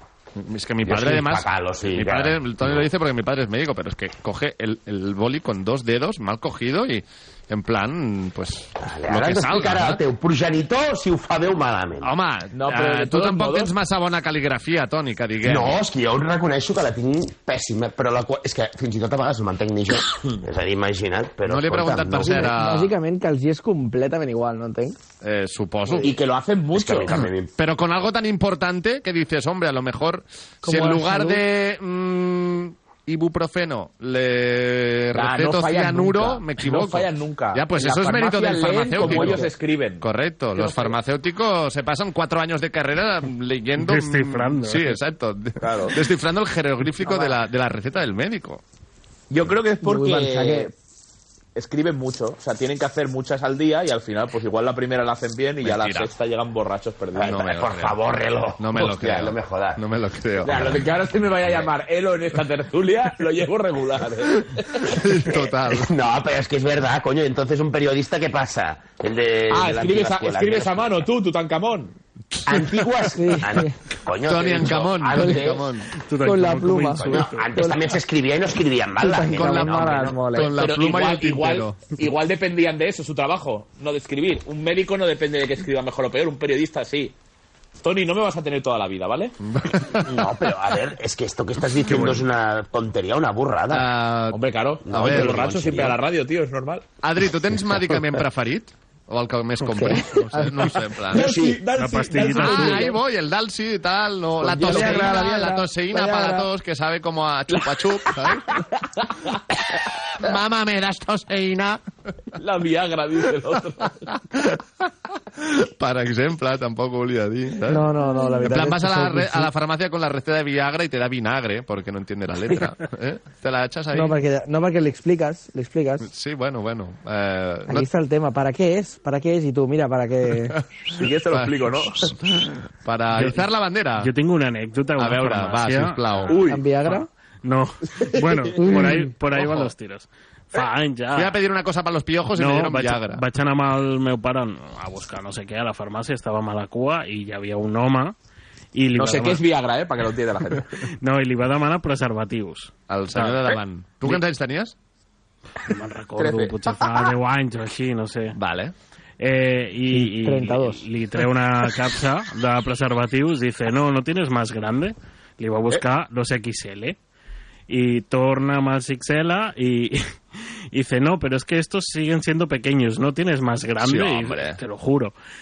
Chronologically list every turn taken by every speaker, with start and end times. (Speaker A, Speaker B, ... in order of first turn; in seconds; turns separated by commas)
Speaker A: 0.4-10.0, Speaker B: 0.8-2.9, Speaker B: 8.8-12.1, Speaker A: 12.0-15.8, Speaker C: 12.5-13.7, Speaker B: 15.4-22.6, Speaker A: 21.5-22.9, Speaker D: 22.3-25.0, Speaker A: 25.2-26.1, Speaker B: 25.9-26.1, Speaker C: 26.0-27.2, Speaker B: 26.7-27.5, Speaker A: 27.6-48.6, Speaker D: 30.6-31.4, Speaker C: 35.1-41.0, Speaker D: 39.0-39.5, Speaker E: 43.8-45.0, Speaker C: 45.6-46.0, Speaker C: 47.0-47.3, Speaker C: 49.3-50.7, Speaker D: 49.8-50.7, Speaker C: 51.5-57.5, Speaker A: 55.6-56.1, Speaker B: 57.1-59.8, Speaker A: 57.2-58.0, Speaker A: 58.6-60.8, Speaker C: 60.4-64.9, Speaker A: 64.8-65.9, Speaker B: 65.3-71.0, Speaker C: 69.5-71.9, Speaker B: 72.5-75.7, Speaker D: 73.2-73.8, Speaker A: 74.2-75.9, Speaker E: 76.0-77.5, Speaker D: 76.2-77.8, Speaker B: 77.0-80.2, Speaker D: 79.0-80.5, Speaker A: 79.3-81.8, Speaker C: 80.5-87.1, Speaker C: 87.8-89.4, Speaker A: 89.5-90.1, Speaker B: 90.0-93.9, Speaker A: 91.8-92.2, Speaker A: 93.7-95.5, Speaker C: 94.3-96.9, Speaker B: 94.8-96.0, Speaker A: 97.0-101.2, Speaker D: 99.7-100.5, Speaker C: 101.1-103.0, Speaker B: 101.1-101.6, Speaker E: 101.8-102.9, Speaker A: 102.3-108.6, Speaker C: 104.4-105.4, Speaker D: 104.6-106.5, Speaker C: 107.5-109.0, Speaker A: 110.2-111.8, Speaker C: 112.4-114.0, Speaker A: 114.3-114.6, Speaker A: 115.4-117.9, Speaker D: 117.7-119.5, Speaker A: 118.4-124.2, Speaker D: 123.9-126.1, Speaker A: 126.0-127.9, Speaker D: 127.7-130.6, Speaker A: 130.6-134.1, Speaker C: 130.9-132.1, Speaker E: 133.2-133.4, Speaker E: 134.0-136.3, Speaker A: 135.0-136.4, Speaker C: 136.3-136.7, Speaker D: 136.5-137.1, Speaker E: 136.9-141.4, Speaker D: 138.6-139.1, Speaker A: 139.3-139.7, Speaker A: 141.2-143.2, Speaker E: 142.3-148.2, Speaker E: 148.7-149.4, Speaker C: 148.9-150.7, Speaker E: 151.0-153.4, Speaker A: 152.9-154.7, Speaker E: 155.6-158.4, Speaker C: 156.2-157.1, Speaker A: 158.3-158.7, Speaker E: 159.2-167.0, Speaker D: 159.9-160.8, Speaker E: 167.7-170.2, Speaker E: 170.7-175.1, Speaker A: 173.8-174.6